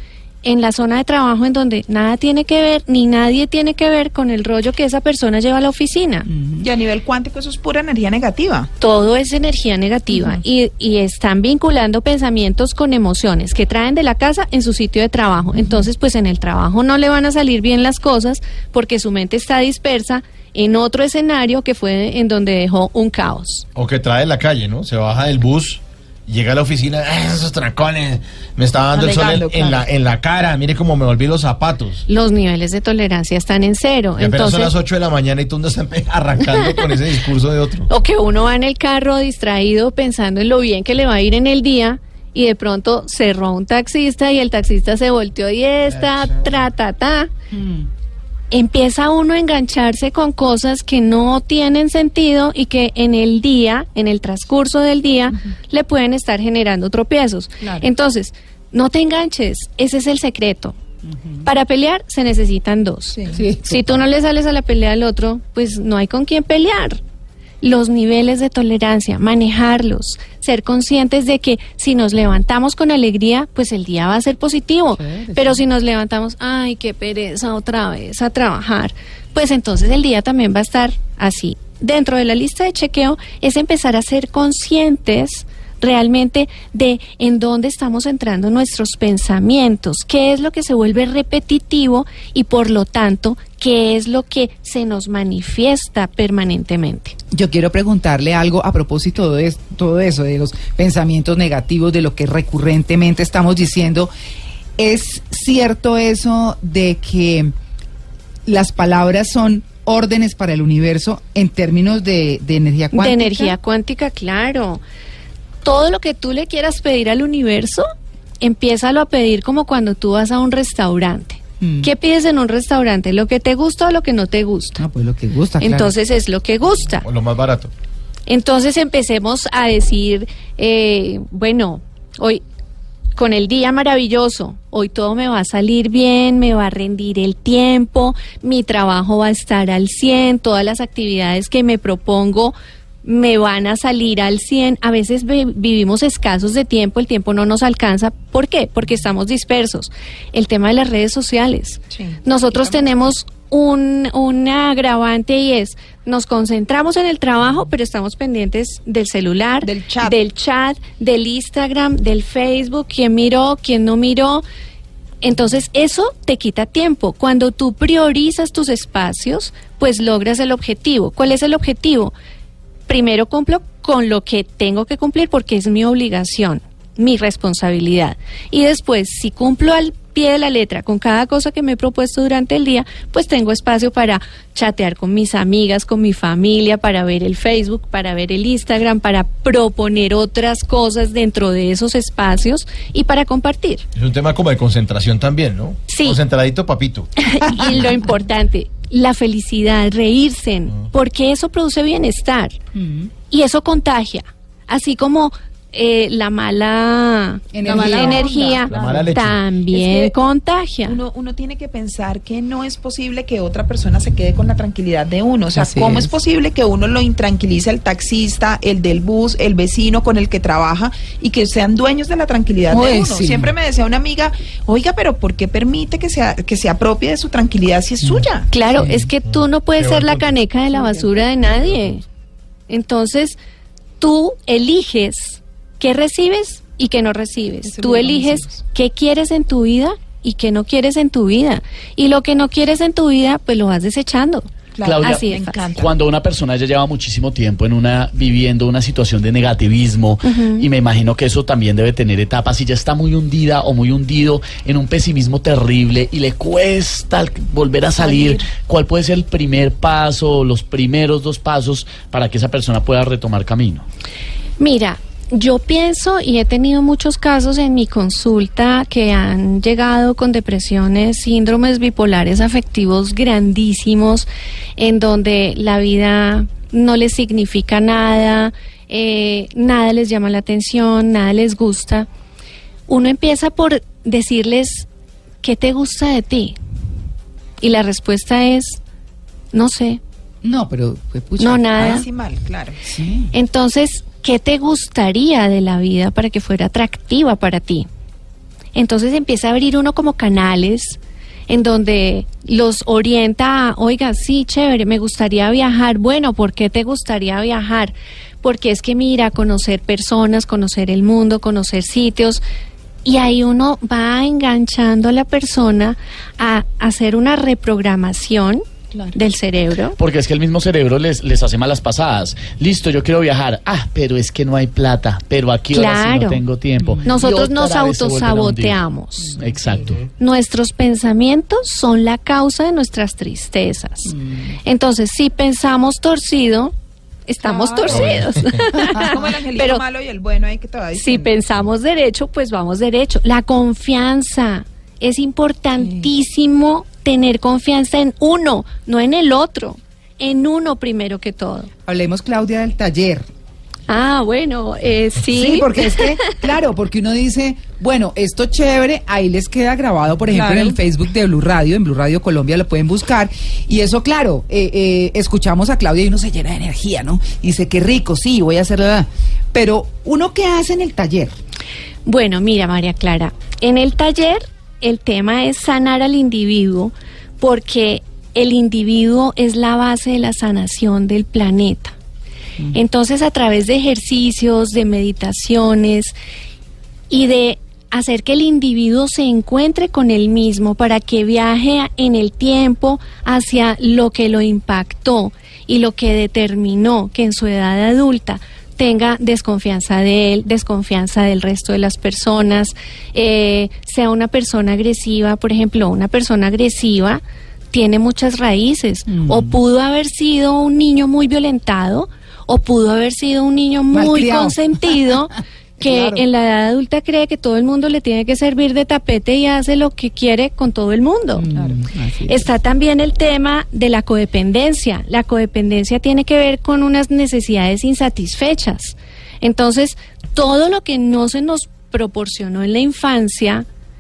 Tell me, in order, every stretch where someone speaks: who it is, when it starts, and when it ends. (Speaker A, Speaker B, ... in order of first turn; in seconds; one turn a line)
Speaker A: 0.4-6.3
Speaker B: 6.3-6.7
Speaker C: 6.6-8.7
Speaker A: 8.8-23.6
Speaker B: 10.1-10.4
Speaker D: 23.8-32.0
Speaker C: 28.9-29.9
Speaker A: 32.1-34.7
Speaker D: 34.2-37.9
Speaker A: 37.9-47.3
Speaker D: 46.0-46.4
Speaker B: 47.5-47.9
Speaker A: 48.5-60.8
Speaker C: 57.6-57.9
Speaker B: 61.1-61.4
Speaker A: 61.4-67.0
Speaker B: 63.3-64.0
Speaker A: 67.6-97.1
Speaker B: 75.0-75.6
Speaker B: 97.3-104.1
Speaker B: 104.8-107.5
Speaker B: 108.5-113.5
Speaker A: 112.9-114.8
Speaker A: 115.6-117.9
Speaker A: 118.4-124.8
Speaker B: 121.6-121.9
Speaker B: 124.8-125.9
Speaker A: 125.6-127.1
Speaker D: 127.0-127.7
Speaker A: 128.3-132.4
Speaker A: 133.2-164.4
Speaker C: 151.9-152.2
Speaker C: 159.6-160.2
Speaker A: 165.2-172.1
Speaker A: 172.9-193.8
Speaker D: 193.9-197.1
Speaker A: 195.9-196.2
Speaker A: 197.2-202.6
Speaker B: 202.7-203.1
Speaker A: 203.3-211.0
Speaker B: 207.5-208.3
Speaker C: 207.6-209.1
Speaker D: 208.7-209.4
Speaker C: 209.7-210.1
Speaker C: 210.8-228.5
Speaker B: 215.5-216.1
Speaker B: 222.7-223.5
Speaker B: 228.0-229.1
Speaker A: 228.5-232.0
Speaker D: 229.3-230.4
Speaker D: 231.5-231.8
Speaker A: 232.7-233.4
Speaker A: 234.0-244.5
Speaker C: 237.6-238.6
Speaker C: 244.7-246.0
Speaker E: 244.8-263.9
Speaker A: 245.0-245.6
Speaker A: 250.2-250.7
Speaker C: 258.0-258.5
Speaker A: 264.6-282.1
Speaker A: 282.9-284.9
Speaker A: 285.4-286.6
Speaker A: 287.6-288.8
Speaker A: 289.5-290.0
Speaker B: 290.4-292.1
Speaker A: 291.4-292.1
Speaker C: 291.7-292.8
Speaker B: 292.8-293.3
Speaker A: 293.3-297.9
Speaker A: 298.7-301.0
Speaker A: 301.5-312.4
Speaker A: 313.0-320.0
Speaker E: 320.0-328.8
Speaker A: 325.7-326.4
Speaker B: 326.8-327.1
Speaker A: 327.0-329.4
Speaker B: 329.3-329.9
Speaker E: 329.4-330.0
Speaker A: 330.2-336.7
Speaker B: 334.1-334.6
Speaker A: 337.3-339.8
Speaker C: 337.4-338.2
Speaker D: 337.9-338.6
Speaker C: 338.9-341.3
Speaker A: 340.9-351.7
Speaker C: 345.8-346.1
Speaker B: 351.9-353.3
Speaker A: 353.9-356.4
Speaker B: 355.3-371.3
Speaker C: 360.3-360.8
Speaker A: 372.1-381.9
Speaker A: 382.7-386.1
Speaker A: 387.1-421.5
Speaker B: 409.1-409.6
Speaker B: 413.9-414.9
Speaker B: 415.8-416.2
Speaker B: 421.4-422.5
Speaker A: 422.3-433.6